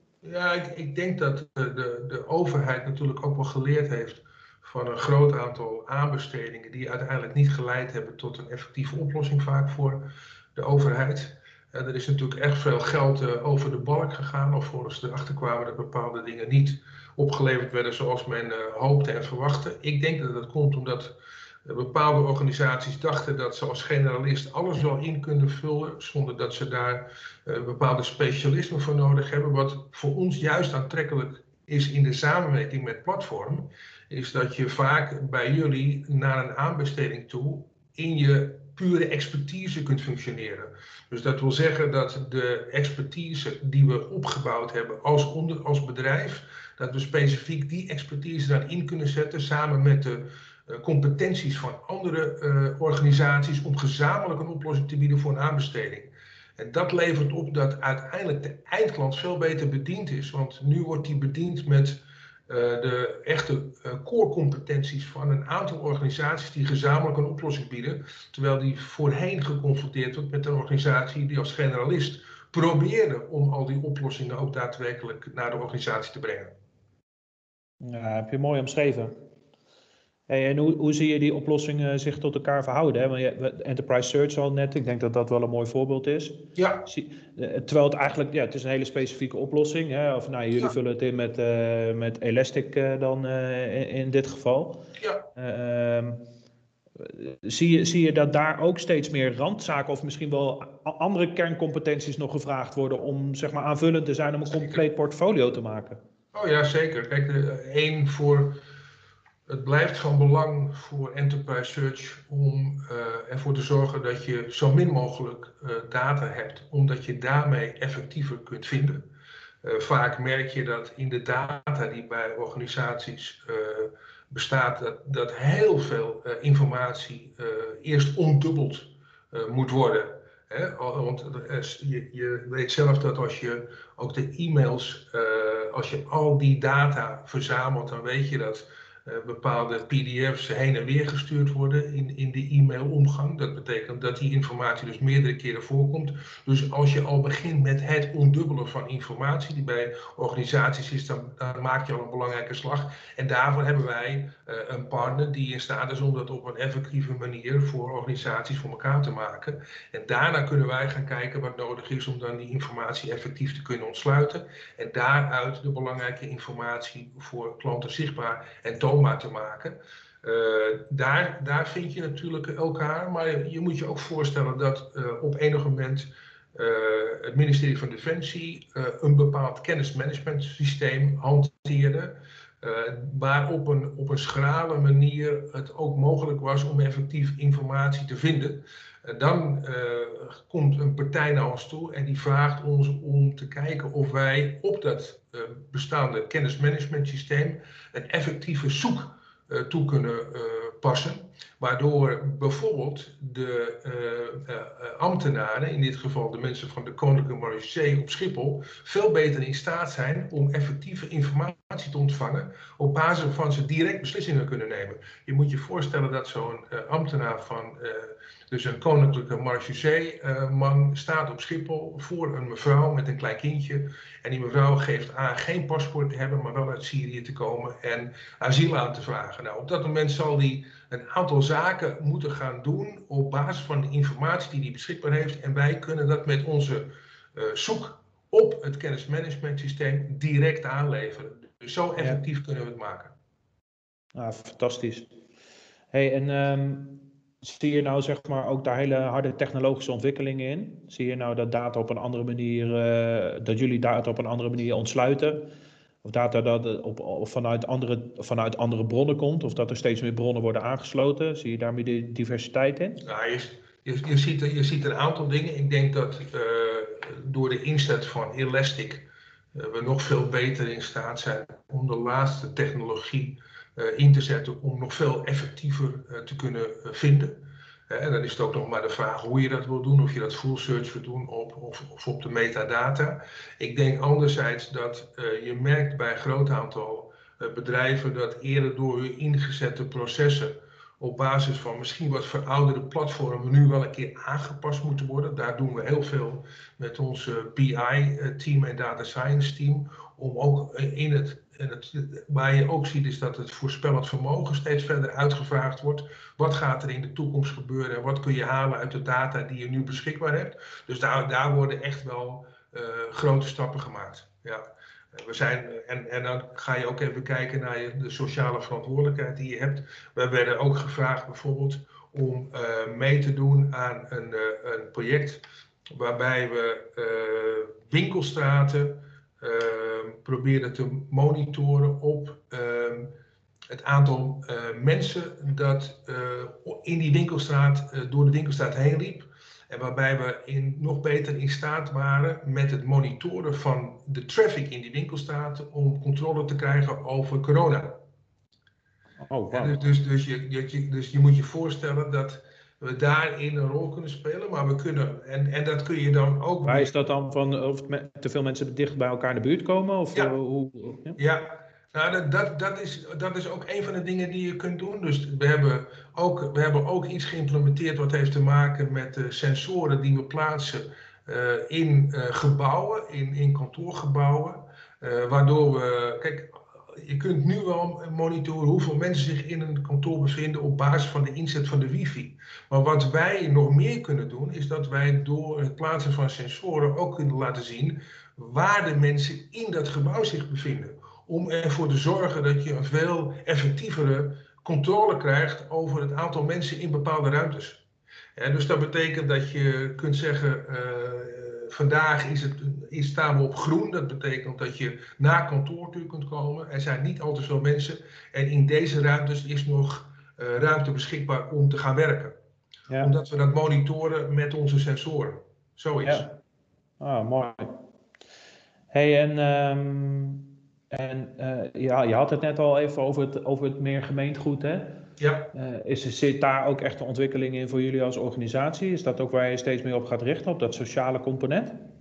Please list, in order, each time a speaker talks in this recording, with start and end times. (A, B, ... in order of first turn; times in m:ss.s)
0:00.2-1:16.5 A
1:17.8-1:19.1 B
1:20.3-1:34.8 B
1:26.6-1:26.8 A
1:35.0-1:35.2 A
1:35.4-1:36.2 B
1:37.0-1:46.0 B
1:46.3-1:48.6 A
1:49.5-1:59.1 A
1:59.6-4:03.1 A
4:04.1-4:05.1 B
4:05.9-4:15.4 B
4:16.0-4:23.0 B
4:23.0-5:33.1 A
5:33.7-5:48.0 A
5:49.2-5:49.8 B
5:49.5-5:56.9 A
5:56.6-6:01.2 B
6:01.2-6:37.8 A
6:38.4-6:52.4 A
6:52.9-6:53.1 B
6:53.0-6:56.3 A
6:56.0-6:56.3 B
6:57.0-6:57.8 B
6:58.9-7:05.0 B
7:05.2-7:05.5 A
7:05.5-7:11.8 B